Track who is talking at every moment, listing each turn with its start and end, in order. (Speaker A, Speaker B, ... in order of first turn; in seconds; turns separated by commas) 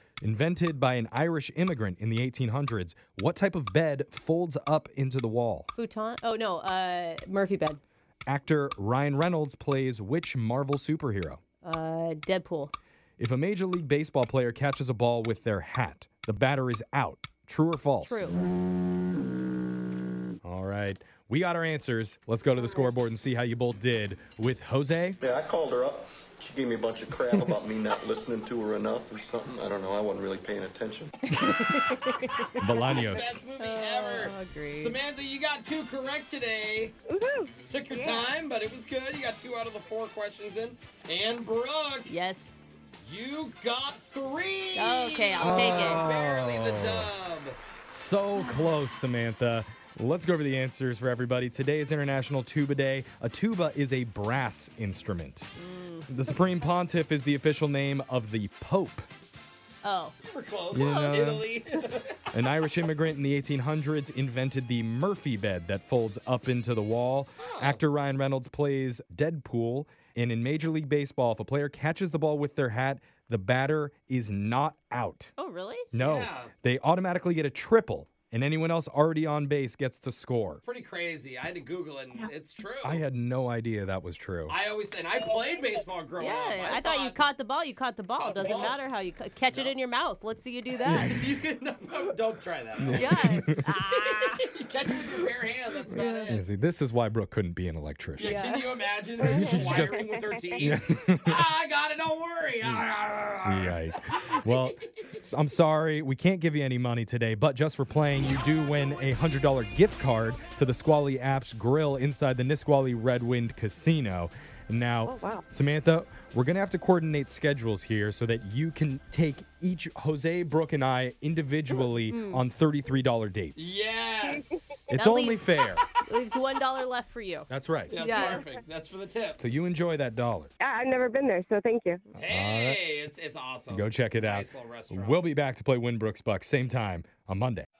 Speaker A: 0.2-5.7, Speaker B: 5.8-7.8, Speaker A: 8.3-11.4, Speaker B: 11.6-12.7, Speaker A: 13.2-18.3, Speaker B: 18.0-18.4, Speaker A: 20.4-25.2, Speaker C: 25.2-31.4, Speaker B: 31.5-33.0, Speaker A: 32.6-33.4, Speaker D: 32.8-37.0, Speaker B: 33.6-35.0, Speaker E: 37.1-38.2, Speaker D: 37.7-42.1, Speaker B: 42.1-42.6, Speaker D: 43.0-47.6, Speaker B: 44.8-46.1, Speaker A: 45.4-47.1, Speaker A: 47.9-55.5, Speaker B: 48.4-48.8, Speaker B: 55.6-56.1, Speaker A: 56.1-59.1, Speaker B: 59.8-60.1, Speaker D: 60.2-62.4, Speaker A: 60.7-61.6, Speaker A: 62.3-75.3, Speaker D: 67.4-67.8, Speaker B: 75.4-75.9, Speaker A: 75.9-80.6, Speaker D: 76.0-76.5, Speaker D: 80.6-83.0, Speaker A: 82.8-84.6, Speaker D: 84.5-87.2, Speaker B: 86.2-91.2, Speaker D: 88.2-88.8, Speaker D: 89.5-89.8, Speaker A: 90.8-91.2, Speaker D: 90.9-96.4, Speaker A: 92.8-93.6, Speaker B: 93.0-94.5, Speaker B: 95.9-96.4, Speaker A: 96.3-98.3, Speaker D: 98.2-105.1, Speaker B: 98.2-98.7, Speaker A: 99.2-100.0, Speaker A: 100.6-101.4, Speaker A: 103.4-123.8, Speaker E: 115.1-115.4, Speaker B: 122.1-122.4, Speaker D: 123.6-124.8, Speaker E: 124.2-124.7, Speaker A: 124.9-125.8, Speaker B: 125.0-125.4, Speaker B: 126.0-128.4, Speaker A: 127.5-128.1, Speaker D: 127.9-129.4, Speaker A: 129.4-130.5, Speaker E: 130.6-132.0, Speaker D: 132.1-135.2, Speaker A: 132.2-132.8, Speaker A: 133.7-137.7